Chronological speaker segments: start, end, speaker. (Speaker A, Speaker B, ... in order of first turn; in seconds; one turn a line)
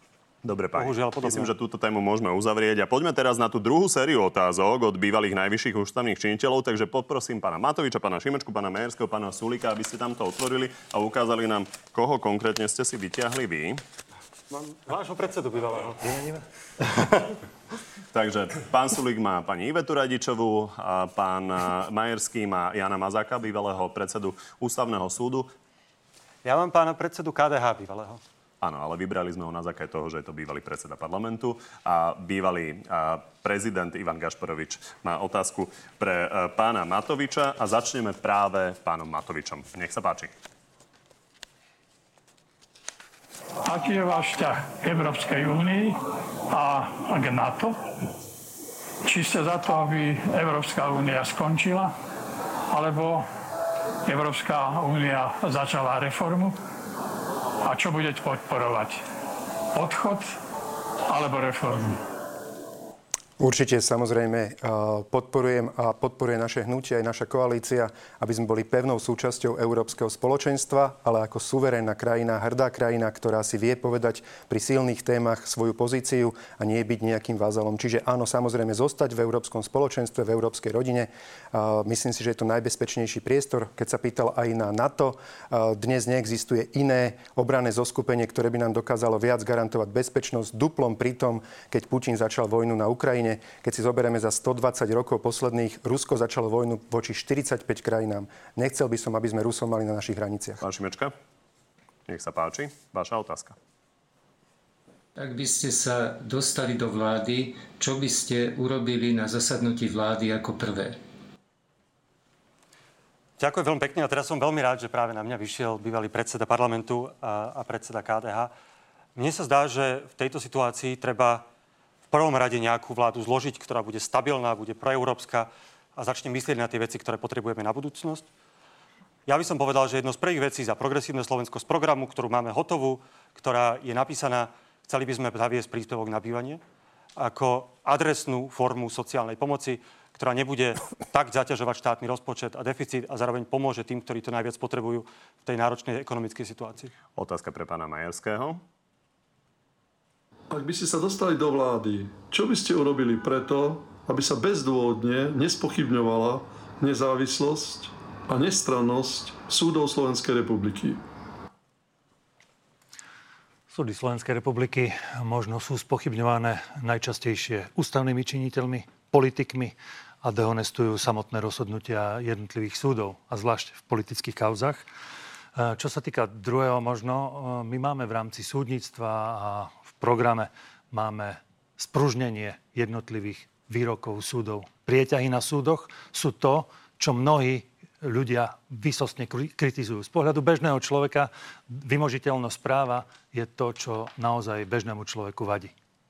Speaker A: 0.4-13.8
Speaker B: 0.7-1.5
Speaker B: 14.5-17.2
Speaker A: 18.1-25.5
Speaker B: 26.4-28.2
Speaker A: 28.6-40.3
Speaker C: 43.6-46.0
Speaker C: 46.5-47.8
Speaker C: 49.0-51.9
Speaker C: 52.7-53.3
Speaker C: 54.1-56.6
Speaker C: 57.6-59.0
Speaker C: 59.8-60.3
Speaker C: 61.1-61.9
Speaker D: 63.4-100.6
Speaker A: 100.6-101.1
Speaker A: 102.1-103.5
Speaker E: 105.2-111.0
Speaker B: 113.4-118.5
Speaker B: 119.2-121.5
Speaker B: 122.1-128.3
Speaker B: 129.2-136.6
Speaker B: 137.2-146.9
Speaker A: 147.2-148.6
Speaker F: 150.5-161.0
Speaker G: 163.7-174.8
Speaker G: 175.6-195.7